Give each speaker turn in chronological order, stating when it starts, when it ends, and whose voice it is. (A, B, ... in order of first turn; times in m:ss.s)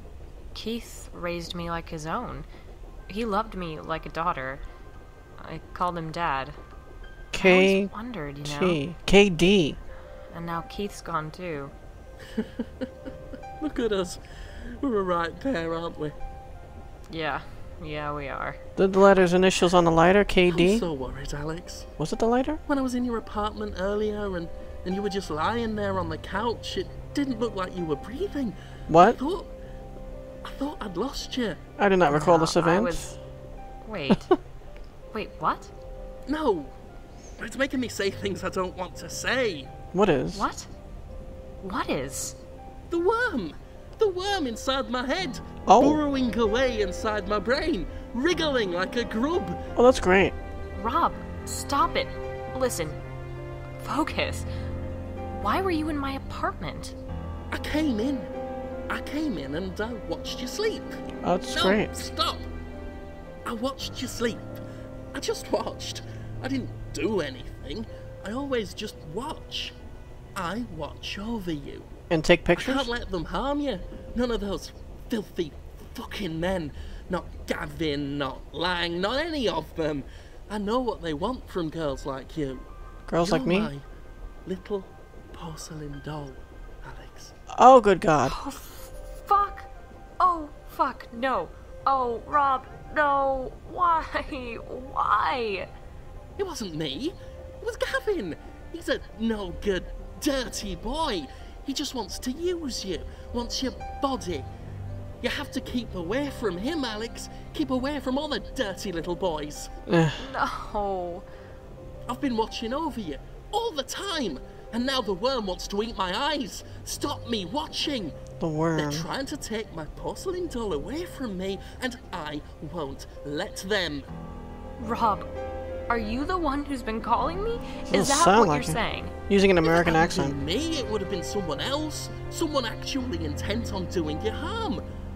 0:00.5-0:02.5 A
0:03.1-0:04.6 A
0:05.4-0:06.6 A
0:07.3-0:09.8 B
0:07.4-0:08.8 A
0:10.3-0:11.7 A
0:12.3-0:12.9 C
0:13.6-0:14.2 C
0:14.8-0:16.1 C
0:17.1-0:18.6 A
0:18.8-0:20.8 B
0:20.5-0:21.9 C
0:22.0-0:22.6 B
0:22.7-0:29.5 C
0:28.9-0:29.2 B
0:30.4-0:31.6 C
0:31.8-0:33.1 B
0:32.1-0:33.2 A
0:33.8-0:34.4 A
0:35.1-0:35.7 A
0:36.3-0:36.7 C
0:37.4-0:39.7 C
0:39.9-0:40.4 B
0:40.3-0:40.7 A
0:41.6-0:42.4 A
0:42.9-0:49.6 C
0:45.6-0:46.0 B
0:49.8-0:50.3 B
0:50.7-0:53.0 A
0:53.8-0:54.5 A
0:55.3-0:57.0 A
0:57.5-0:58.3 C
0:58.9-1:02.5 C
1:01.2-1:01.9 B
1:03.4-1:04.6 C
1:05.1-1:09.8 C
1:10.3-1:11.9 C
1:12.1-1:12.9 B
1:12.5-1:22.6 C
1:23.1-1:23.7 B
1:23.2-1:23.8 C
1:24.4-1:27.3 C
1:27.5-1:28.3 B
1:28.2-1:29.7 A
1:30.2-1:35.7 A
1:36.4-1:44.5 C
1:45.2-1:49.7 C
1:49.9-1:50.2 B
1:50.2-1:51.2 A
1:52.1-1:58.2 C
1:58.4-1:59.1 B
1:58.8-2:04.1 C
2:04.8-2:05.3 A
2:05.9-2:09.1 A
2:07.9-2:10.3 B
2:09.8-2:14.8 C